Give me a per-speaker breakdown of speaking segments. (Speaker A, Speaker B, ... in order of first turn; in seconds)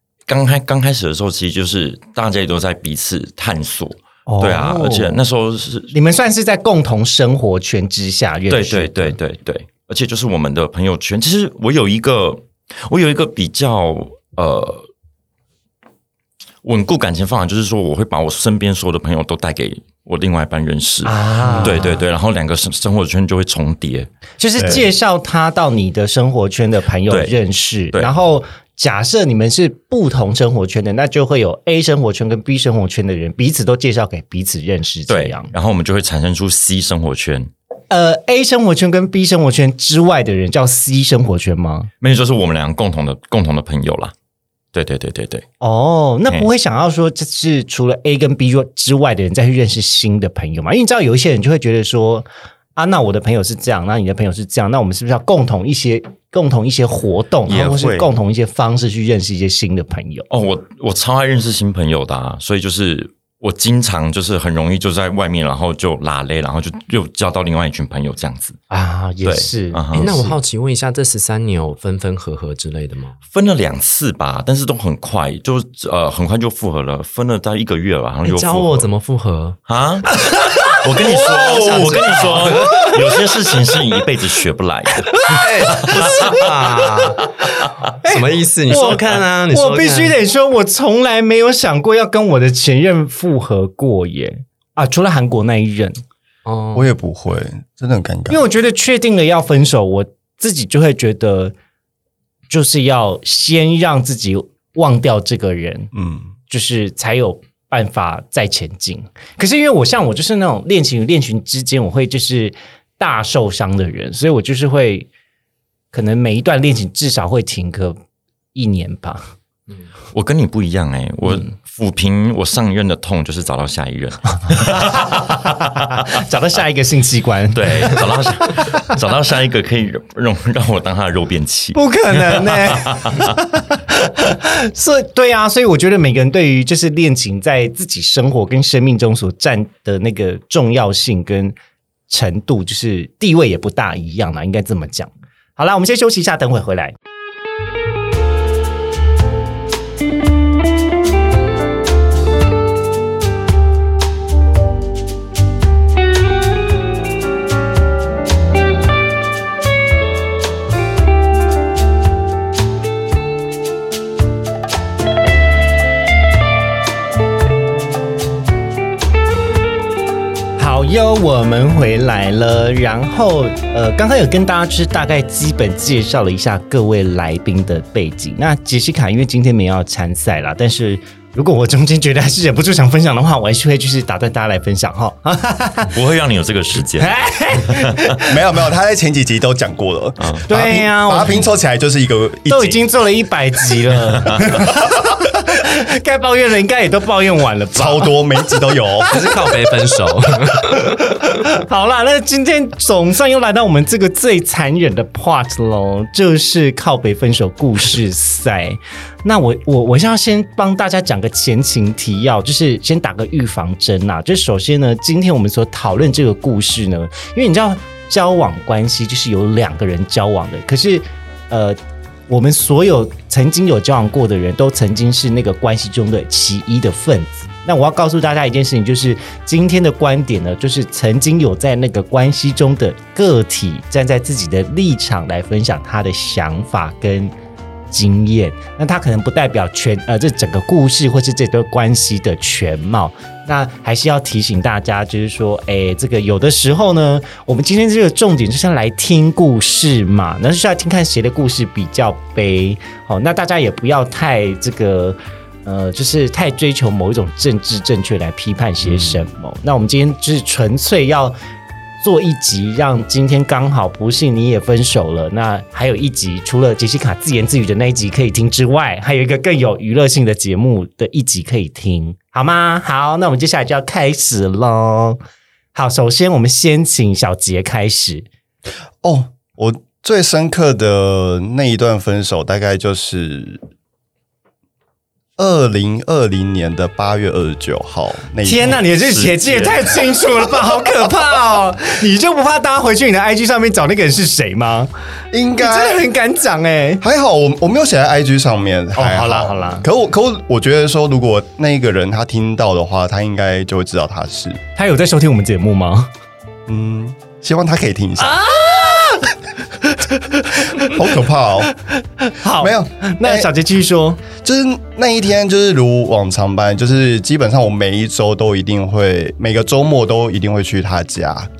Speaker A: 0.3-5.9, 8.5-14.9, 16.6-24.1, 27.1-27.4, 35.1-37.5, 42.0-44.1, 44.7-45.4, 57.5-58.1, 60.3-68.6, 69.2-70.1, 73.3-78.9, 79.7-86.7, 120.1-126.0, 127.5-133.3, 185.9-188.0, 289.1-289.9
Speaker B: 4.3-5.2, 5.9-9.2, 21.0-22.0, 24.4-35.5, 37.9-41.9, 45.6-60.3, 68.7-70.4, 80.1-83.0, 85.3-86.5, 88.0-96.0, 98.3-101.5, 102.5-105.9, 106.5-115.1, 115.9-118.0, 118.5-119.3, 124.6-128.9, 131.7-141.5, 142.1-146.9, 170.6-185.9, 187.0-188.3, 190.5-191.5, 192.5-199.6, 200.7-237.3, 237.9-261.4, 262.0-275.2, 275.7-278.3, 288.4-294.9, 295.6-297.0, 298.9-299.9, 304.8-306.1, 308.2-311.0, 311.8-314.2
Speaker C: 21.4-21.8, 24.6-24.9, 96.7-98.4, 105.9-106.3, 188.2-192.8, 197.7-199.1, 279.0-283.6, 285.4-288.8, 295.3-296.0, 297.0-304.6, 306.7-308.4, 310.8-311.7, 312.6-313.5, 314.4-321.5
Speaker D: 69.9-73.2, 78.2-79.6, 81.0-82.9, 85.3-87.3, 88.0-90.2, 96.4-96.9, 199.1-201.0